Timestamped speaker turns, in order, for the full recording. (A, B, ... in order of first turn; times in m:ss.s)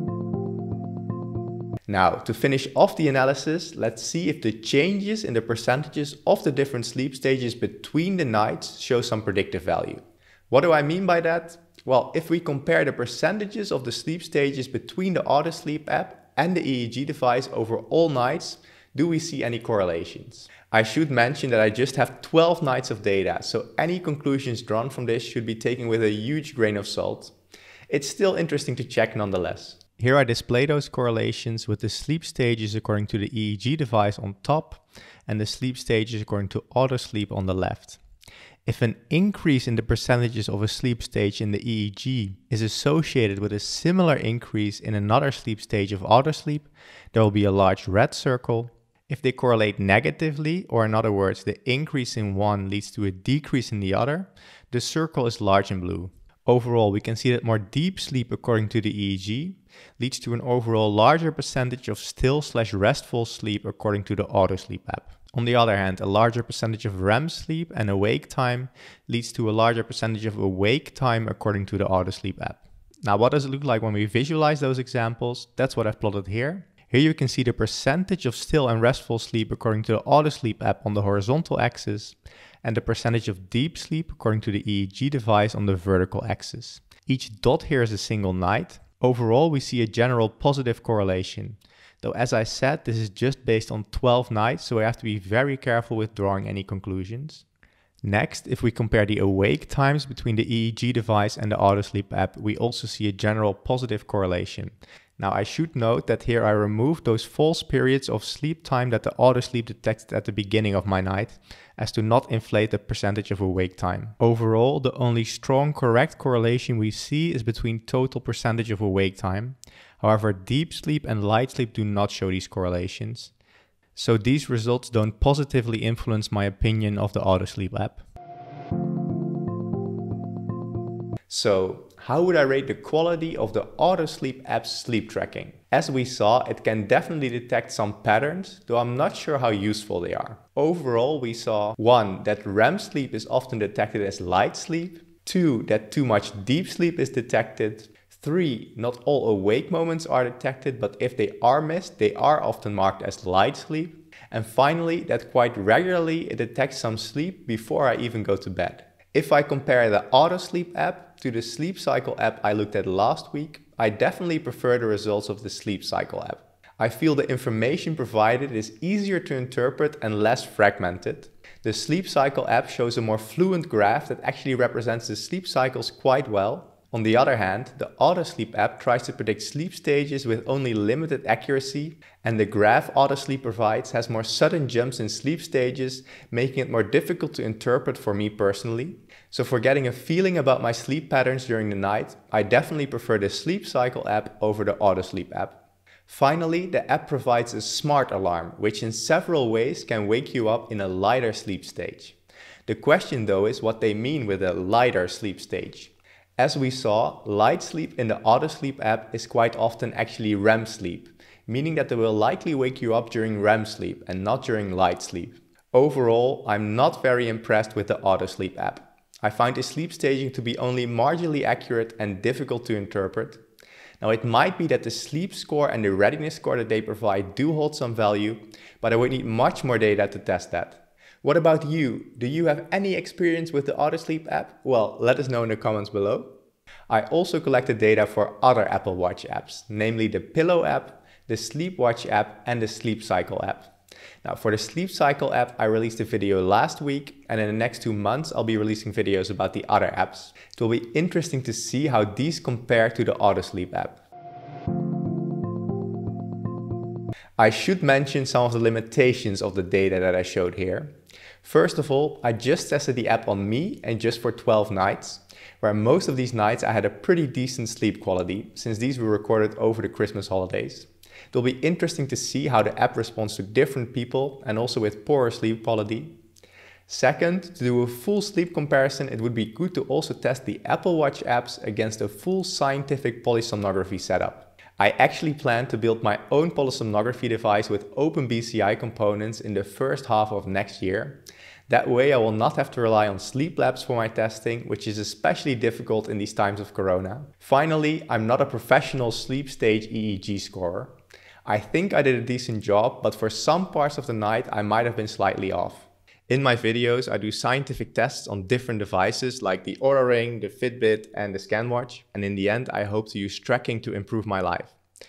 0:01.9-0:27.3 A
0:27.9-0:38.0 A
0:38.7-1:37.4 A
1:38.0-2:03.3 A
2:04.0-2:08.0 A
2:11.3-3:22.2 A
3:22.7-3:43.4 A
3:44.0-3:56.3 A
3:56.9-4:03.7 A
4:04.2-4:14.0 A
4:17.4-4:36.2 A
4:36.9-5:01.0 A
5:01.5-5:14.8 A